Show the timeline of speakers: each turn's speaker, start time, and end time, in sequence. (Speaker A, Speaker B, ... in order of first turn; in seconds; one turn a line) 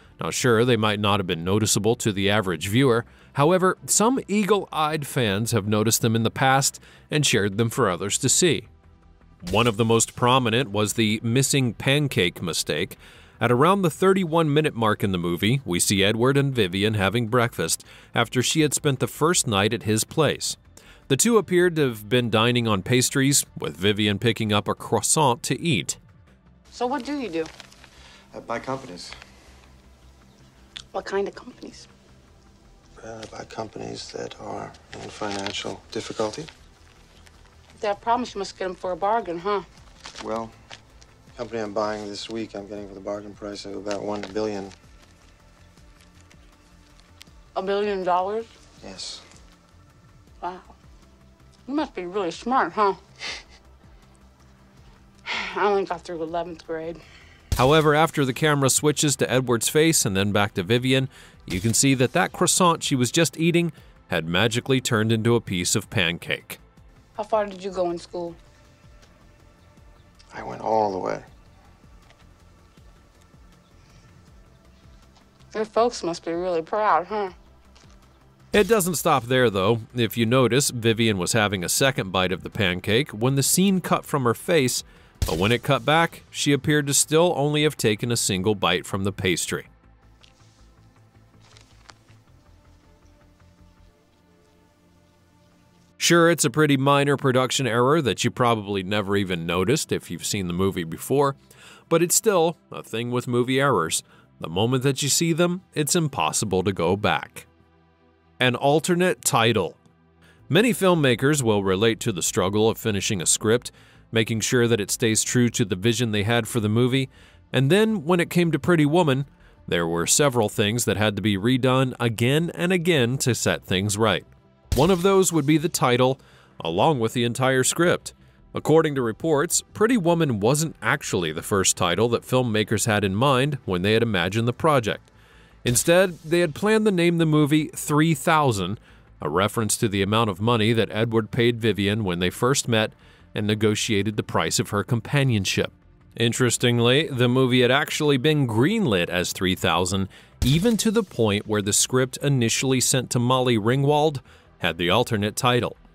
Speaker A: 0.2-8.7
Speaker A: 9.4-20.6
Speaker A: 21.1-26.0
Speaker B: 26.7-27.5
Speaker C: 28.3-29.1
Speaker B: 30.9-31.8
Speaker C: 33.0-36.5
Speaker B: 37.8-39.6
Speaker C: 40.2-40.5
Speaker C: 41.3-44.7
Speaker B: 47.5-48.5
Speaker C: 48.8-49.2
Speaker B: 50.4-50.7
Speaker B: 51.7-53.0
Speaker B: 55.2-57.0
Speaker A: 57.5-66.6
Speaker B: 67.2-68.4
Speaker C: 70.3-71.3
Speaker B: 75.5-77.3
Speaker A: 78.5-89.7
Speaker A: 96.0-101.3
Speaker A: 101.9-107.5
Speaker A: 108.4-109.8
Speaker A: 110.5-135.1
Speaker A: 135.6-155.8